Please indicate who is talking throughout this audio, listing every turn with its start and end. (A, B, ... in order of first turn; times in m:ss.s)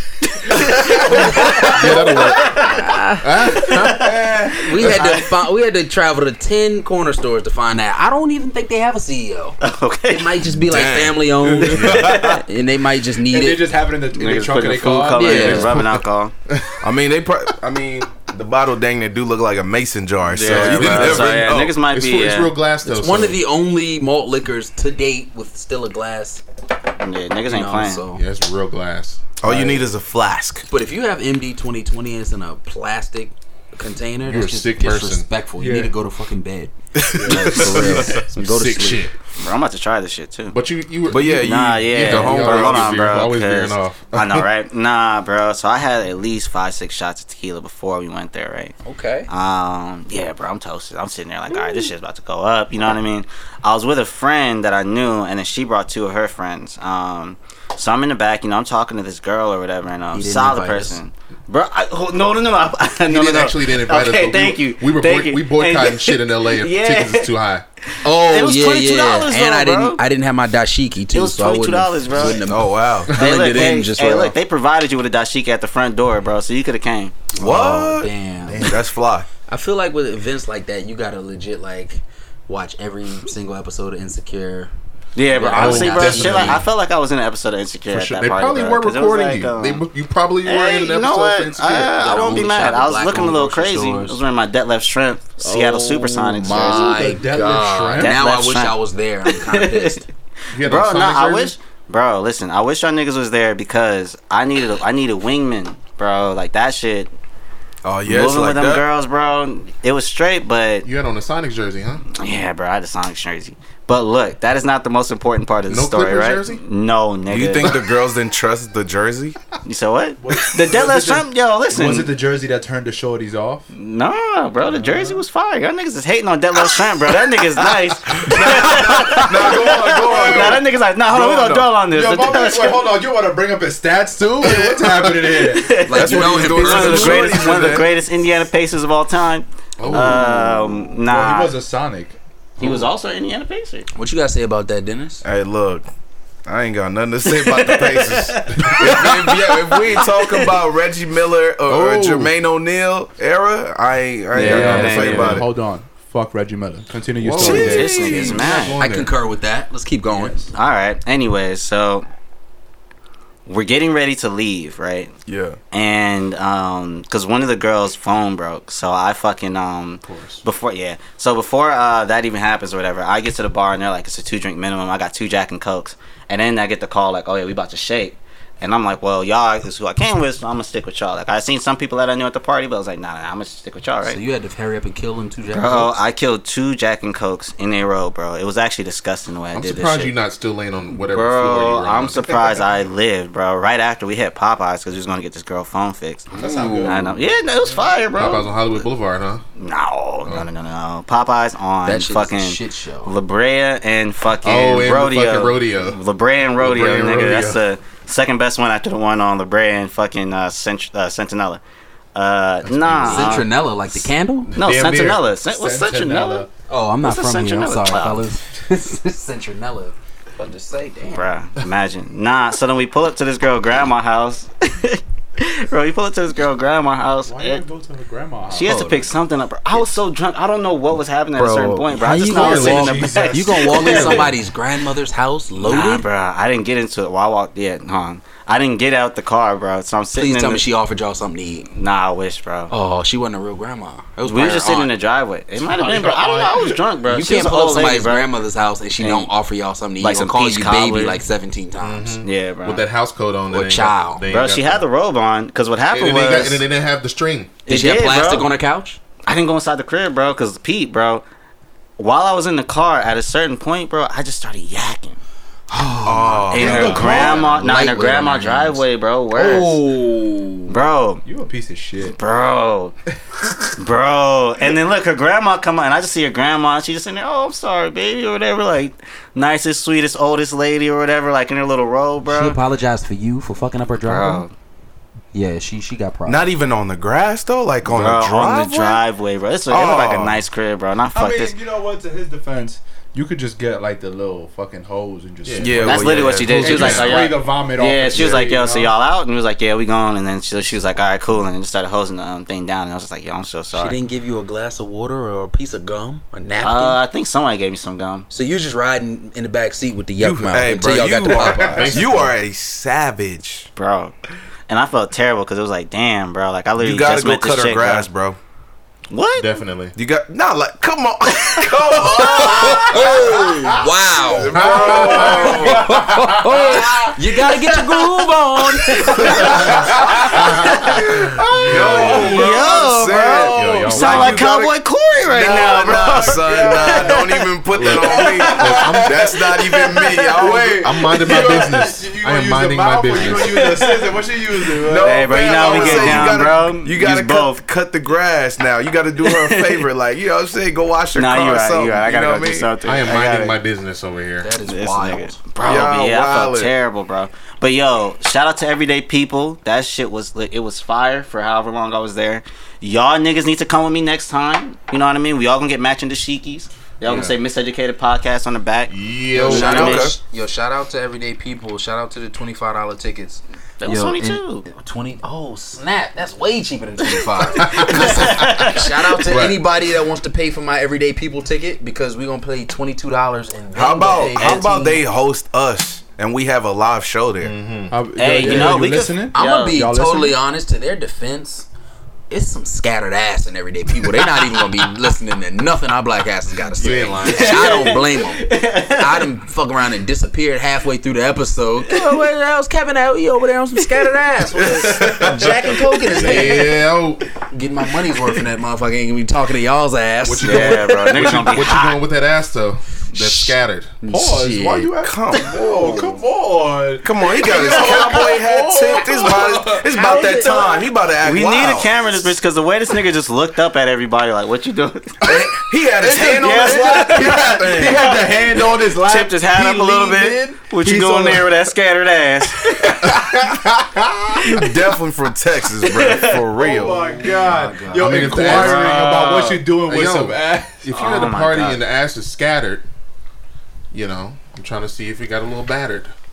0:00.3-0:05.3 A
0:00.5-0:02.0 B
0:01.0-0:03.5 C
0:01.6-0:04.2 D
0:03.9-0:04.6 B
0:04.6-0:13.7 C
0:04.8-0:05.2 D
0:09.6-0:10.4 A
0:10.6-0:12.4 E
0:11.6-0:12.4 A
0:11.8-0:12.2 D
0:13.3-0:15.7 B
0:14.1-0:16.3 A
0:15.1-0:15.7 C
0:15.3-0:16.8 D
0:16.8-0:21.7 E
0:20.3-0:22.6 A
0:20.4-0:23.4 D
0:22.8-0:26.4 C
0:27.0-0:28.0 A
0:27.5-0:28.2 C
0:28.1-0:29.3 D
0:29.4-0:30.7 E
0:29.4-0:29.8 C
0:30.7-0:39.1 C
0:34.2-0:35.3 D
0:35.6-0:35.9 B
0:37.0-0:37.4 E
0:37.3-0:39.1 D
0:37.3-0:38.1 B
0:37.4-0:38.0 A
0:39.4-0:40.6 A
0:40.5-0:44.5 D
0:41.1-0:43.3 E
0:41.2-0:48.8 A
0:48.8-0:49.3 C
0:49.3-1:07.3 A
1:00.1-1:01.0 C
1:03.1-1:07.6 D
1:07.9-1:10.0 A
1:08.0-1:14.3 C
1:11.1-1:12.5 A
1:12.4-1:13.1 E
1:13.1-1:17.2 A
1:17.3-1:18.7 C
1:17.4-1:19.3 E
1:18.5-1:18.8 D
1:19.5-1:24.7 C
1:25.2-1:29.8 A
1:25.3-1:26.7 C
1:25.5-1:26.6 D
1:27.9-1:31.9 D
1:30.4-1:36.9 A
1:31.8-1:34.2 C
1:35.4-1:40.0 C
1:36.5-1:38.2 B
1:36.7-1:38.2 D
1:38.0-1:47.1 A
1:40.5-1:41.5 D
1:47.8-1:48.8 E
1:48.1-1:50.9 A
1:50.8-1:52.1 D
1:52.2-1:57.8 A
1:55.7-1:56.6 D
1:57.3-1:59.4 E
1:57.6-1:57.9 D
1:59.6-2:02.1 A
2:00.2-2:03.7 B
2:03.7-2:12.8 A
2:04.7-2:05.2 D
2:08.3-2:10.6 E
2:08.3-2:17.4 B
2:14.5-2:15.5 D
2:15.5-2:21.5 A
2:15.8-2:17.4 C
2:15.9-2:17.9 E
2:19.8-2:20.8 D
2:21.0-2:22.2 B
2:22.6-2:23.9 A
2:22.6-2:22.9 D
2:24.0-2:25.2 C
2:25.2-2:25.8 E
2:26.4-2:35.4 E
2:27.3-2:30.0 A
2:27.8-2:28.8 D
2:31.7-2:32.3 D
2:34.3-2:38.1 B
2:34.4-2:35.4 A
2:34.7-2:35.0 D
2:37.2-2:39.2 D
2:37.4-2:38.4 E
2:37.5-2:38.8 A
2:37.6-2:40.5 C
2:40.5-2:42.1 A
2:43.5-2:45.1 A
2:45.3-2:45.6 E
2:45.7-3:04.2 A
2:50.0-2:50.4 D
3:04.0-3:06.0 C
3:05.5-3:10.2 A
3:09.5-3:12.6 D
3:11.1-3:16.3 A
3:16.3-3:17.1 C
3:16.4-3:16.9 D
3:16.4-3:17.0 B
3:16.8-3:18.8 A
3:18.1-3:19.4 D
3:19.6-3:31.6 A
3:21.8-3:23.1 C
3:24.4-3:26.0 D
3:26.6-3:27.6 D
3:32.2-3:33.5 A
3:32.6-3:33.4 D
3:33.0-3:34.6 C
3:34.5-3:35.2 D
3:34.6-3:36.5 A
3:35.5-3:36.5 B
3:36.7-3:41.3 C
3:37.0-3:38.2 A
3:41.0-3:47.6 A
3:47.3-3:48.8 B
3:48.5-3:54.3 A
3:48.6-3:49.1 C
3:51.4-3:51.9 E
3:51.9-3:56.1 C
3:52.3-3:54.1 B
3:55.6-4:00.6 A
4:00.2-4:01.7 C
4:01.8-4:02.7 A
4:02.7-4:04.9 C
4:04.2-4:08.3 A
4:05.6-4:06.8 D
4:07.1-4:12.2 C
4:09.0-4:09.3 A
4:10.0-4:11.2 A
4:11.8-4:14.8 D
4:12.2-4:12.8 A
4:13.5-4:14.2 C
4:14.3-4:16.6 A
4:15.9-4:17.6 D
4:17.7-4:19.0 C
4:17.7-4:18.5 A
4:19.2-4:21.2 A
4:22.0-4:25.2 A
4:25.7-4:30.8 C
4:26.0-4:27.2 E
4:26.5-4:29.8 A
4:26.6-4:27.5 B
4:30.7-4:31.2 A
4:31.2-4:32.2 B
4:32.0-4:33.0 A
4:33.8-4:42.6 A
4:42.3-4:44.5 C
4:44.0-4:44.5 A
4:45.3-4:46.4 C
4:46.3-4:49.0 E
4:47.9-4:51.6 A
4:49.7-4:50.4 E
4:51.1-4:58.9 B
4:55.4-4:57.2 D
4:55.6-4:57.2 E
4:55.8-5:04.0 A
5:03.7-5:07.0 C
5:06.6-5:08.3 A
5:08.3-5:12.1 C
5:10.2-5:13.7 E
5:11.3-5:12.4 D
5:13.8-5:14.1 A
5:14.7-5:18.1 A
5:16.8-5:18.4 E
5:19.1-5:19.5 A
5:19.4-5:19.9 D
5:20.0-5:23.6 E
5:22.0-5:29.7 C
5:22.6-5:23.1 B
5:24.3-5:26.0 E
5:24.5-5:26.0 D
5:24.6-5:27.1 B
5:27.6-5:29.4 A
5:29.2-5:32.6 B
5:29.3-5:34.5 D
5:30.5-5:31.0 A
5:31.7-5:41.6 E
5:31.9-5:38.2 A
5:33.1-5:34.3 B
5:35.7-5:37.2 B
5:37.8-5:39.4 D
5:37.8-5:39.3 B
5:39.5-5:40.2 A
5:40.3-5:46.4 B
5:40.8-5:43.7 D
5:43.4-5:44.2 A
5:44.9-5:52.8 E
5:44.9-5:47.6 A
5:49.2-5:49.9 A
5:51.2-5:53.6 A
5:52.8-5:54.5 D
5:54.4-5:55.4 C
5:54.6-6:10.1 A
5:55.6-5:56.7 E
6:07.1-6:07.4 D
6:08.9-6:10.0 D
6:09.4-6:25.0 C
6:09.6-6:10.2 E
6:13.8-6:14.7 A
6:17.5-6:18.6 D
6:17.7-6:19.2 A
6:19.2-6:19.6 D
6:23.7-6:27.6 E
6:27.4-6:28.8 D
6:27.9-6:30.4 B
6:28.2-6:29.8 A
6:28.5-6:31.7 C
6:32.3-6:46.8 C
6:36.5-6:37.9 D
6:37.2-6:39.3 A
6:41.9-6:42.2 A
6:44.6-6:45.4 E
6:44.8-6:45.5 B
6:46.1-6:47.3 D
6:47.4-6:51.4 C
6:50.2-6:53.9 D
6:50.4-6:52.0 A
6:51.2-6:51.5 B
6:53.1-6:54.9 C
6:54.1-6:59.9 B
6:55.0-6:56.2 E
6:57.0-7:01.9 E
6:57.5-6:58.2 A
6:59.8-7:00.9 C
7:00.1-7:05.5 A
7:05.2-7:07.9 E
7:06.0-7:11.5 B
7:06.1-7:13.2 A
7:12.8-7:14.6 B
7:14.4-7:17.0 E
7:15.8-7:16.6 A
7:16.6-7:20.9 B
7:16.9-7:17.3 D
7:17.2-7:18.7 C
7:17.9-7:22.8 D
7:20.9-7:21.8 A
7:23.9-7:26.1 D